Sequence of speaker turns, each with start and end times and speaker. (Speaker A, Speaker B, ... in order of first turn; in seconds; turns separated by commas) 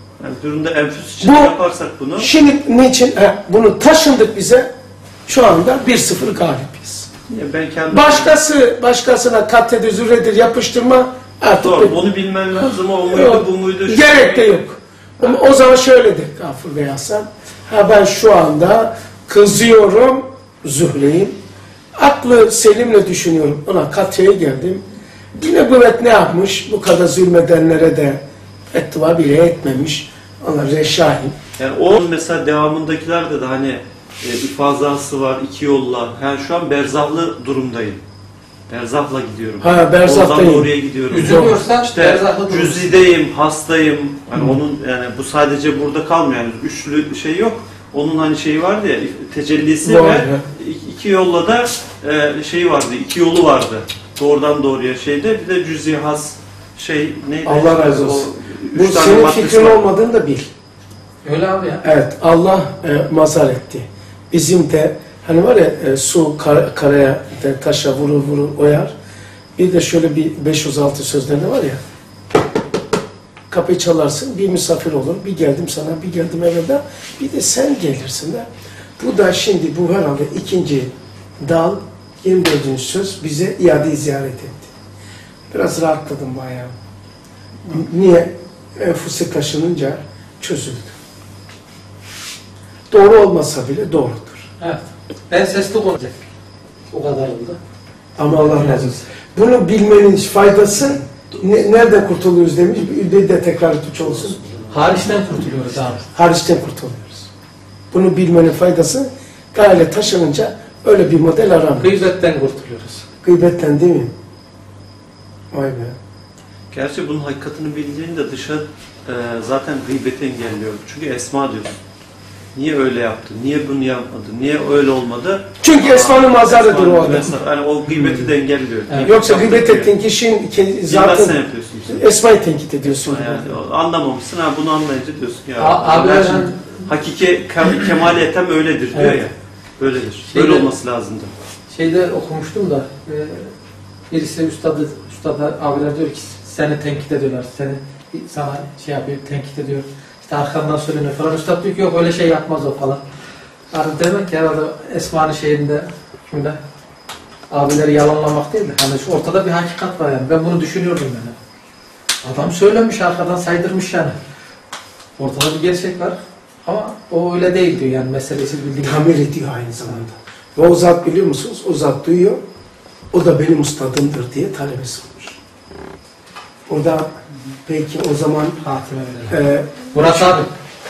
Speaker A: 0.2-2.3, Speaker B: 1.2-1.6, Speaker B: 2.2-4.7, Speaker B: 5.3-7.1, Speaker A: 7.3-8.3, Speaker B: 7.9-12.0, Speaker A: 11.6-14.6, Speaker B: 13.0-21.4, Speaker B: 21.9-24.8, Speaker B: 25.4-31.4, Speaker A: 31.6-38.0, Speaker A: 38.7-59.8, Speaker B: 39.6-41.6, Speaker C: 41.1-43.1, Speaker B: 49.8-50.5, Speaker B: 57.5-60.5, Speaker C: 61.2-61.9, Speaker B: 61.8-68.9, Speaker B: 69.6-71.8, Speaker B: 73.5-78.5, Speaker B: 79.0-84.7, Speaker B: 85.5-86.8, Speaker B: 87.7-90.9, Speaker B: 92.9-94.5, Speaker C: 94.6-96.3, Speaker C: 96.9-97.6, Speaker B: 98.2-104.4, Speaker C: 98.3-99.0, Speaker C: 104.7-106.1, Speaker B: 106.1-107.3, Speaker B: 107.9-112.0, Speaker C: 111.8-113.0, Speaker B: 113.2-114.1, Speaker B: 115.5-116.0, Speaker A: 116.7-121.7, Speaker A: 122.5-129.9, Speaker B: 125.6-127.4, Speaker C: 128.9-129.2, Speaker B: 129.0-133.5, Speaker A: 130.9-132.0, Speaker A: 132.9-141.3, Speaker C: 135.6-136.6, Speaker C: 138.9-139.2, Speaker C: 140.3-140.7, Speaker C: 141.7-143.5, Speaker C: 144.1-153.0, Speaker C: 153.7-156.6, Speaker C: 157.5-161.4, Speaker C: 162.2-164.2, Speaker C: 165.2-169.2, Speaker B: 168.8-172.4, Speaker B: 173.1-175.4, Speaker B: 176.7-177.1, Speaker B: 177.7-178.6, Speaker C: 178.6-179.4, Speaker B: 179.3-180.5, Speaker C: 179.9-180.5